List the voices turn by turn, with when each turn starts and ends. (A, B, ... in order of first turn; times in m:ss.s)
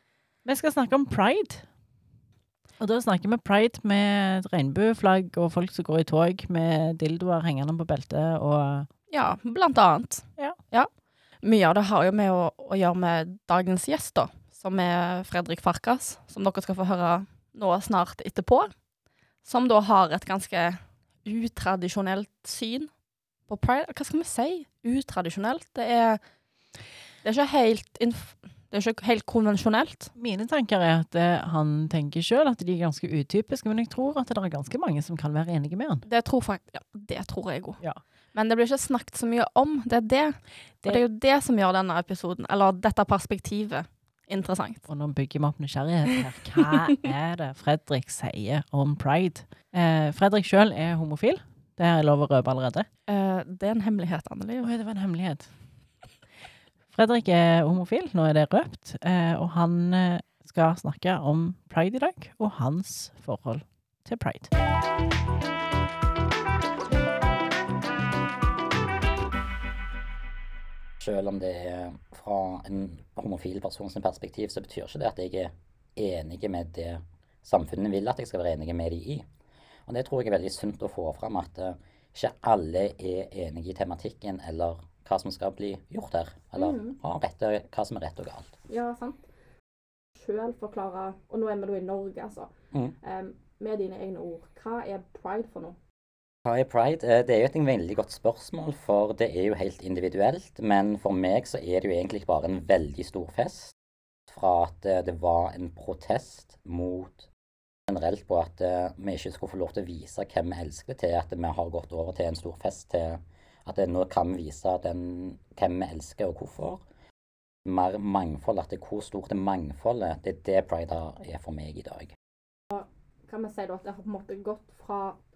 0:00.4-0:01.7 A
0:02.8-0:08.9 A
0:09.1-0:10.9 B
0:11.4-0:18.7 B
0:19.4-0:22.9 B
0:23.5-0:26.2 B
0:27.2-0:30.1 B
0:30.2-0:36.0 A
0:36.0-0:37.8 B
0:38.3-0:44.8 B
0:44.9-0:52.9 A
0:53.1-0:54.7 B
0:54.6-0:55.5 A
0:56.9-1:04.5 A
1:11.0-1:19.2 C
1:19.9-1:28.6 C
1:26.6-1:27.0 B
1:28.7-1:29.2 B
1:30.2-1:35.8 B
1:36.4-1:43.7 C
1:44.3-1:47.3 C
1:47.9-1:56.8 C
1:57.6-2:02.2 C
2:02.7-2:05.2 B